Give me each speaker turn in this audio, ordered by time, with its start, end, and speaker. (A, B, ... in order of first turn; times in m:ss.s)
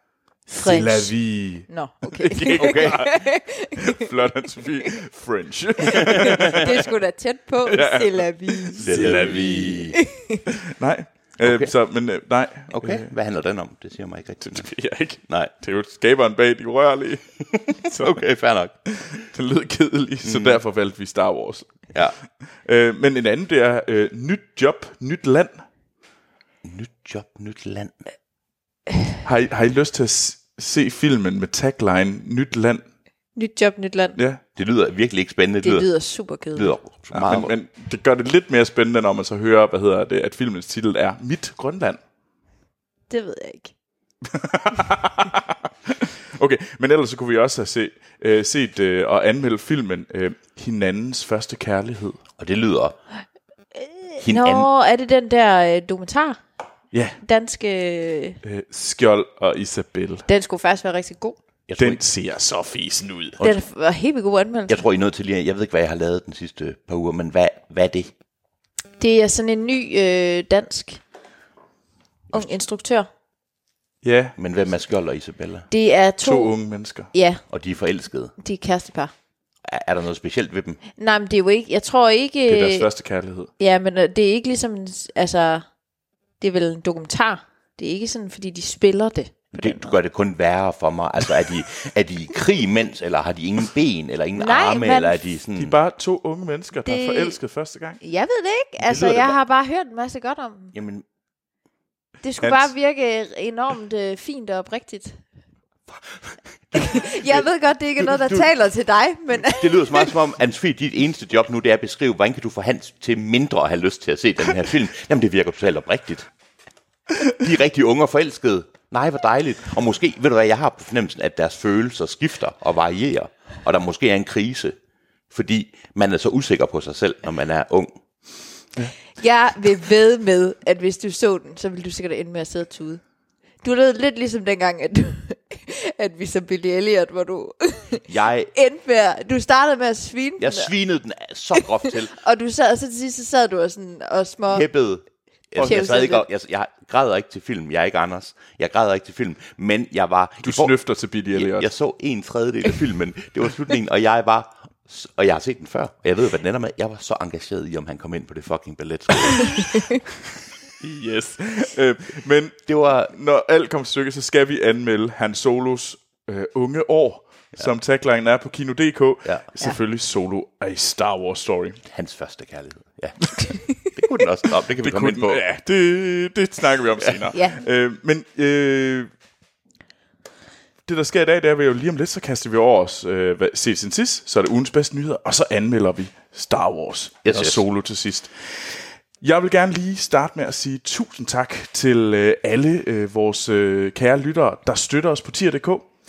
0:00.5-0:01.1 A
0:00.6-0:06.8 B
0:01.7-0:04.0 A
0:02.4-0:03.1 C
0:05.9-0:10.4 A
0:06.0-0:06.7 C
0:07.6-0:09.8 B
0:08.8-0:10.0 C
0:10.7-0:13.1 B
0:11.4-0:11.7 C
0:12.7-0:14.7 C
0:14.4-0:18.2 B
0:17.9-0:18.7 C
0:18.9-0:21.9 B
0:20.2-0:20.6 C
0:22.6-0:25.5 B
0:26.6-0:28.0 C
0:29.2-0:32.8 B
0:33.4-0:34.2 A
0:34.6-0:35.9 C
0:35.6-0:36.7 A
0:36.5-0:37.5 C
0:37.1-0:42.0 B
0:43.1-0:43.7 A
0:44.3-0:52.2 B
0:52.4-0:53.0 C
0:53.7-0:56.4 A
0:54.2-0:54.7 C
0:56.9-0:57.2 B
0:57.2-0:58.4 A
0:58.4-1:00.2 B
1:00.3-1:01.4 A
1:01.7-1:02.0 C
1:01.8-1:03.4 B
1:03.4-1:04.8 A
1:04.7-1:08.1 C
1:09.0-1:11.0 A
1:12.3-1:13.1 A
1:14.0-1:14.3 B
1:14.4-1:15.6 C
1:15.7-1:16.5 A
1:16.2-1:17.1 B
1:17.1-1:17.4 A
1:17.5-1:18.3 C
1:18.4-1:19.1 A
1:19.6-1:20.8 C
1:21.0-1:22.9 A
1:22.5-1:23.5 B
1:23.6-1:25.7 A
1:26.4-1:30.0 A
1:29.5-1:35.8 C
1:34.4-1:35.2 A
1:35.6-1:38.0 B
1:36.8-1:37.4 A
1:38.0-1:40.7 A
1:38.9-1:39.3 B
1:40.7-1:41.0 C
1:42.2-1:45.2 A
1:42.4-1:42.7 B
1:45.9-1:47.4 C
1:46.7-1:50.1 A
1:48.0-1:48.5 C
1:49.3-1:56.3 C
1:57.3-2:04.8 C
2:05.3-2:07.9 C
2:09.2-2:13.0 A
2:13.6-2:20.7 A
2:18.1-2:18.5 C
2:20.4-2:22.1 C
2:21.6-2:24.6 A
2:24.5-2:30.7 C
2:25.6-2:25.9 B
2:25.6-2:26.3 A
2:30.4-2:31.7 B
2:31.3-2:39.6 C
2:40.8-2:51.8 B
2:42.7-2:43.1 C
2:51.9-2:55.4 C
2:54.8-2:59.1 B
2:57.3-2:57.6 A
3:00.8-3:15.9 B
3:07.2-3:07.6 C